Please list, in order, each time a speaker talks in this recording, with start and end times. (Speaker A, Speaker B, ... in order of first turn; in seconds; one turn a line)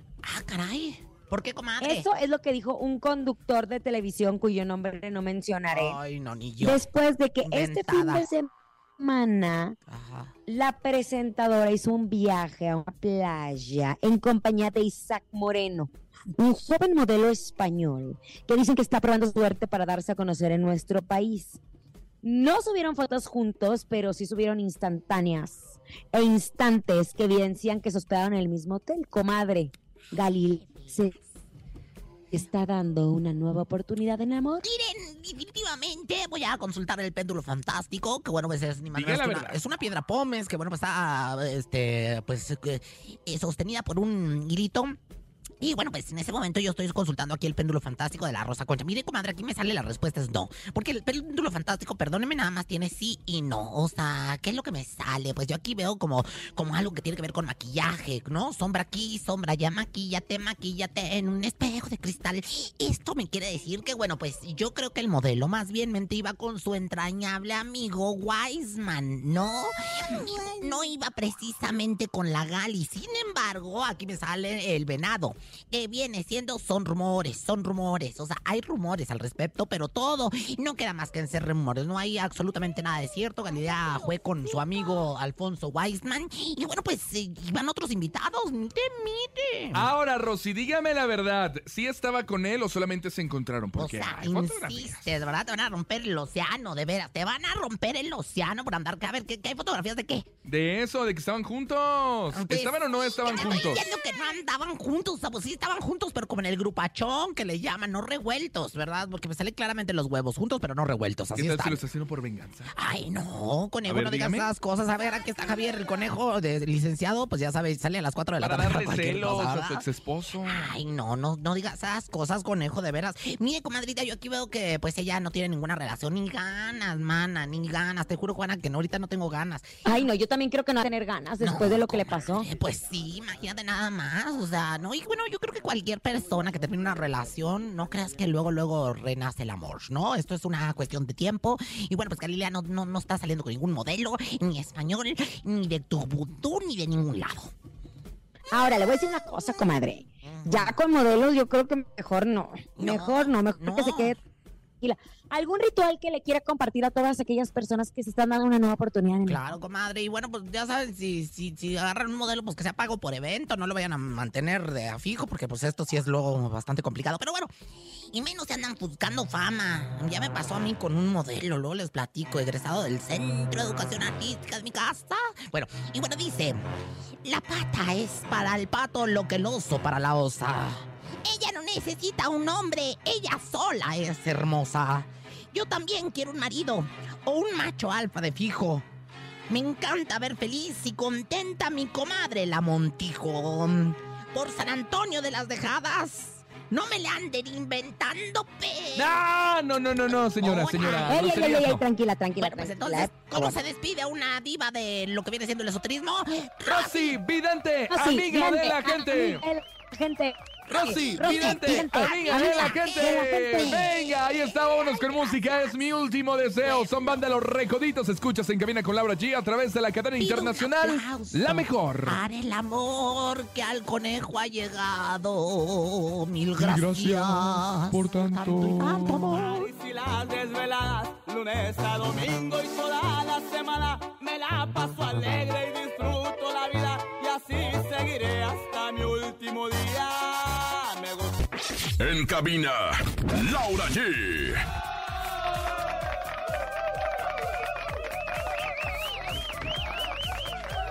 Speaker A: 0.2-2.1
Speaker B: 1.8-6.0
Speaker A: 5.7-6.9
Speaker B: 6.6-9.8
Speaker A: 7.4-8.3
Speaker A: 9.9-10.3
Speaker B: 10.5-21.6
Speaker B: 22.2-31.1
Speaker A: 30.6-31.2
Speaker B: 32.3-34.6
Speaker A: 34.6-45.0
Speaker C: 38.9-39.6
Speaker A: 45.6-89.9
Speaker C: 89.7-95.1
Speaker A: 93.8-100.3
Speaker C: 100.5-103.8
Speaker A: 102.3-111.8
Speaker C: 111.4-112.7
Speaker A: 112.7-119.8
Speaker C: 113.9-114.5
Speaker C: 118.4-120.7
Speaker A: 120.4-129.8
Speaker B: 129.8-132.5
Speaker A: 131.4-147.5
Speaker B: 148.5-154.2
Speaker A: 150.2-150.8
Speaker A: 152.8-154.2
Speaker B: 154.8-159.4
Speaker A: 159.3-167.5
Speaker A: 168.1-176.7
Speaker A: 177.2-188.9
Speaker A: 189.5-199.2
Speaker C: 199.0-201.8
Speaker A: 200.1-201.5
Speaker B: 201.1-203.6
Speaker A: 202.4-207.2
Speaker C: 206.7-209.4
Speaker B: 207.9-210.4
Speaker C: 210.7-222.2
Speaker A: 210.7-214.0
Speaker B: 211.2-213.8
Speaker A: 214.9-215.6
Speaker A: 216.6-217.2
Speaker A: 220.2-229.7
Speaker C: 226.6-229.3
Speaker D: 229.3-241.4
Speaker E: 242.0-244.6